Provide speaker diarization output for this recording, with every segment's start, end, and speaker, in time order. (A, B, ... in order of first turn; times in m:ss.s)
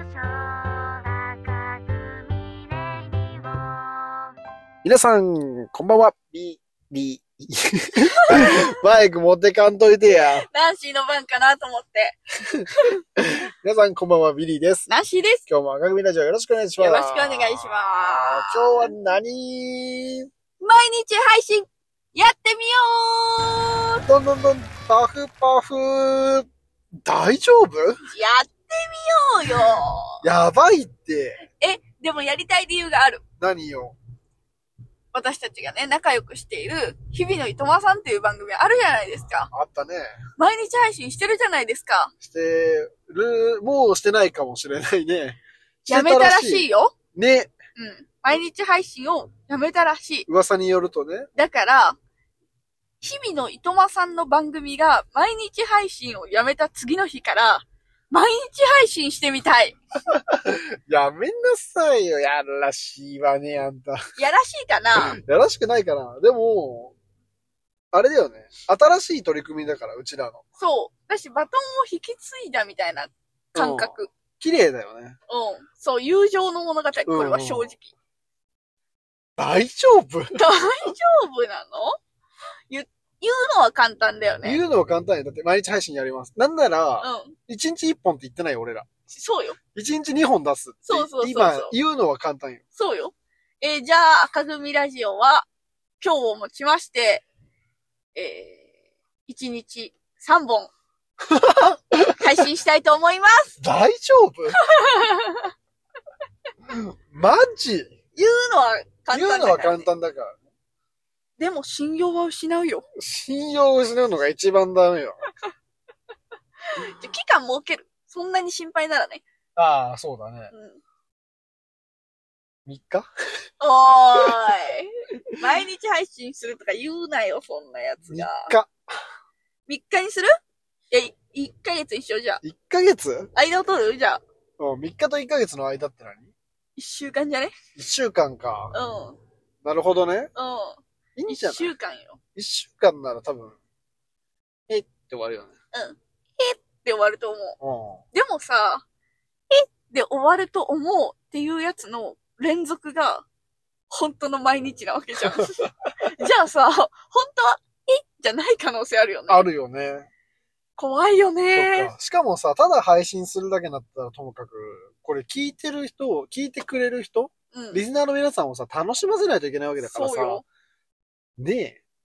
0:04.8-0:10.4 A
0:08.3-0:08.6 B
0:10.5-0:12.2 B
0:13.2-0:14.9 A
0:14.9-0:15.4 B
0:15.5-0:20.3 A
0:16.8-0:18.9 B
0:20.6-0:24.0 B
0:24.1-0:26.5 A
0:27.0-0:28.0 A
0:28.1-0:30.2 B
0:30.2-0:31.4 A
0:31.6-0:33.2 B
0:33.4-0:34.0 A
0:35.1-0:39.5 B
0:39.5-0:40.2 A
0:40.4-0:42.1 B
0:42.2-0:47.6 A
0:45.8-0:46.9 B
0:47.8-0:50.3 B
0:50.3-0:51.3 A
0:51.3-0:52.0 B
0:53.0-0:59.8 B
1:00.1-1:04.0 A
1:04.2-1:05.2 B
1:04.9-1:07.0 A
1:07.9-1:10.4 A
1:10.6-1:14.1 B
1:13.5-1:15.2 A
1:15.3-1:17.9 B
1:17.0-1:17.7 A
1:19.4-1:20.4 A
1:20.3-1:21.9 B
1:22.7-1:24.6 B
1:24.4-1:28.9 A
1:27.0-1:27.4 B
1:29.1-1:29.6 B
1:29.7-1:32.6 A
1:30.8-1:31.7 B
1:32.8-1:35.5 B
1:36.0-1:37.2 B
1:38.1-1:38.7 B
1:39.2-1:40.7 B
1:41.3-1:42.3 A
1:42.1-1:43.5 B
1:43.6-1:44.6 A
1:44.7-1:45.5 B
1:46.7-1:48.0 A
1:48.1-1:49.9 B
1:49.1-1:50.4 A
1:51.4-1:52.8 B
1:53.0-1:55.2 A
1:56.7-1:59.2 B
1:59.6-2:00.5 A
2:00.5-2:00.8 B
2:02.6-2:03.1 A
2:03.6-2:08.5 B
2:08.1-2:08.8 A
2:09.7-2:10.3 B
2:10.9-2:12.4 B
2:12.4-2:13.3 A
2:13.3-2:14.2 B
2:14.6-2:16.3 A
2:16.8-2:17.6 B
2:17.7-2:18.7 A
2:18.7-2:19.2 B
2:19.6-2:20.3 A
2:20.3-2:22.2 B
2:21.2-2:21.7 A
2:22.4-2:23.6 A
2:24.7-2:25.6 A
2:25.7-2:27.6 B
2:27.6-2:28.0 A
2:28.1-2:28.8 B
2:29.5-2:33.2 B
2:33.9-2:39.5 B
2:39.3-2:40.1 A
2:40.8-2:41.9 B
2:41.5-2:50.4 A
2:47.5-2:47.8 B
2:49.8-2:50.4 B
2:51.4-2:51.8 A